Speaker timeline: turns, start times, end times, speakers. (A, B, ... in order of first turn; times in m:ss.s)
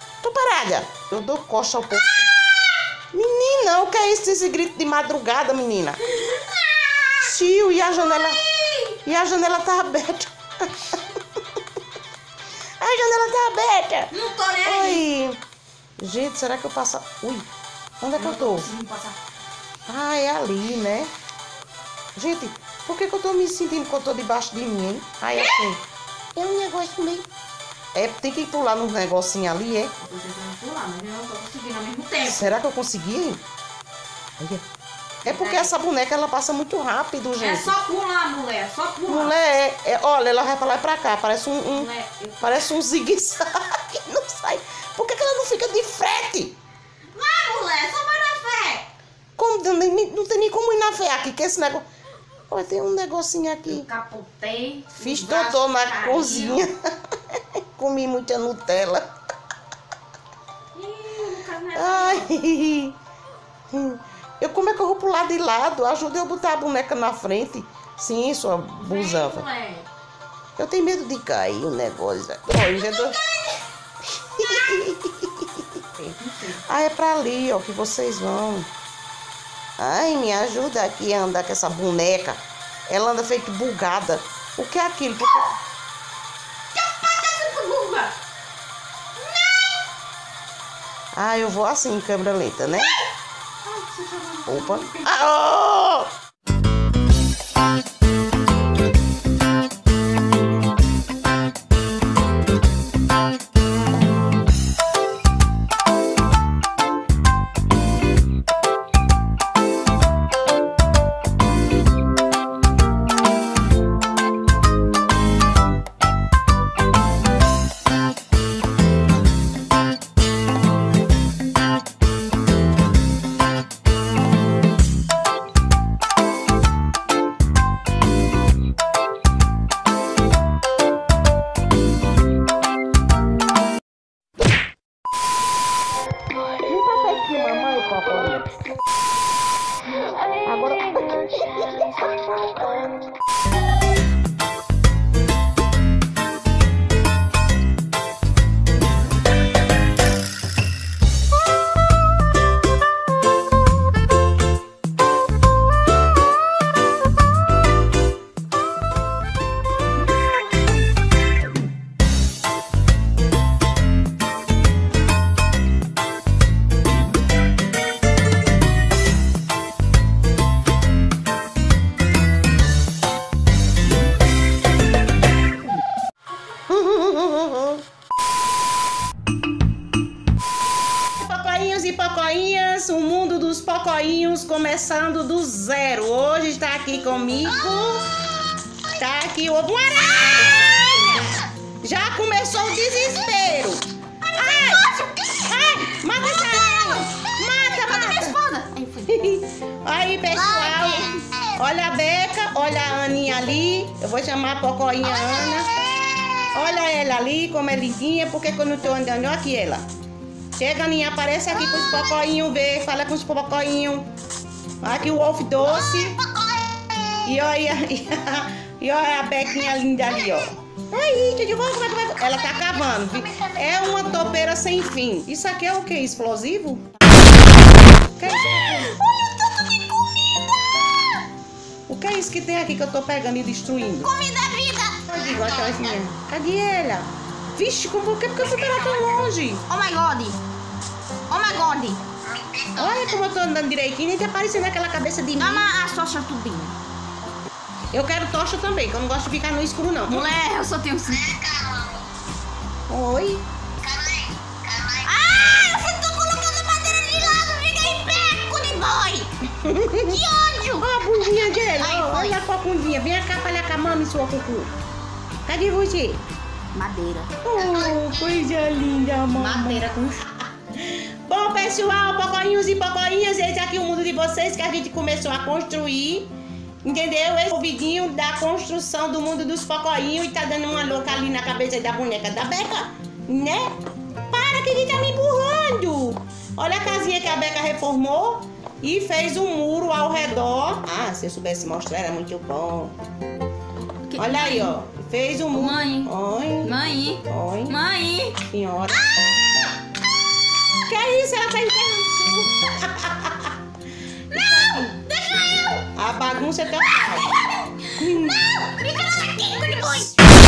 0:00.2-0:02.3 A
0:03.1-0:06.1 A
0:06.2-0:07.1 B
0:07.1-0:11.0 A
0:12.8-0:15.4 A
0:14.1-0:15.0 B
0:16.0-0:17.5 A
0:18.0-0:18.7 A
0:18.1-0:19.2 B
0:19.8-0:21.1 A
0:22.2-0:25.8 A
0:26.3-0:27.3 A
0:27.9-0:29.9 A
0:30.0-0:32.6 B
0:32.2-0:33.4 A
0:34.4-0:34.6 A
0:35.2-0:37.7 A
0:35.2-0:35.7 B
0:37.4-0:39.3 B
0:39.1-0:41.9 A
0:41.7-0:42.6 B
0:42.4-0:46.5 A
0:47.1-0:48.9 B
0:49.4-0:51.8 A
0:52.5-0:53.8 A
0:53.7-0:56.6 B
0:55.0-0:56.8 A
0:57.3-0:59.1 A
1:00.7-1:02.3 B
1:01.8-1:03.0 A
1:03.7-1:09.4 A
1:08.8-1:09.9 B
1:10.6-1:13.2 A
1:14.2-1:18.7 A
1:16.2-1:16.6 B
1:19.8-1:25.6 A
1:26.7-1:28.1 B
1:29.2-1:29.8 B
1:31.1-1:33.0 A
1:33.6-1:35.1 B
1:34.5-1:36.1 A
2:16.6-2:18.4 A
2:20.4-2:22.4 A
2:56.7-2:57.8 A
3:01.1-3:08.1 A
3:08.9-3:18.4 A
3:10.2-3:11.3 B
3:14.4-3:15.6 B
3:16.4-3:19.2 B
3:19.0-3:25.8 A
3:20.3-3:21.4 B
3:26.5-3:29.8 A
3:30.5-3:34.1 A
3:34.8-3:36.2 A
3:37.2-3:46.8 A
3:48.2-3:49.0 A
3:48.5-3:50.9 B
3:51.9-3:54.1 A
3:54.0-3:56.0 B
3:55.0-3:59.6 A
3:58.6-3:59.1 B
3:59.7-4:00.4 B
4:01.3-4:03.1 B
4:02.8-4:05.7 A
4:05.4-4:06.8 B
4:07.9-4:10.3 A
4:10.1-4:11.8 B
4:12.9-4:13.4 A
4:14.9-4:19.3 B
4:19.6-4:20.2 A
4:20.0-4:22.4 B
4:20.7-4:24.7 A
4:25.4-4:26.2 A
4:26.7-4:27.9 B
4:27.4-4:36.3 A
4:29.4-4:30.1 B
4:36.8-4:43.7 A
4:44.3-4:53.0 A
4:53.8-4:54.8 B
4:54.2-4:57.8 A
4:55.5-4:56.1 B
4:56.6-4:58.4 B
4:58.4-4:59.0 A
5:00.8-5:03.6 A
5:04.3-5:05.8 B
5:04.3-5:04.9 A
5:05.9-5:07.3 A
5:07.0-5:10.3 B
5:07.9-5:08.4 A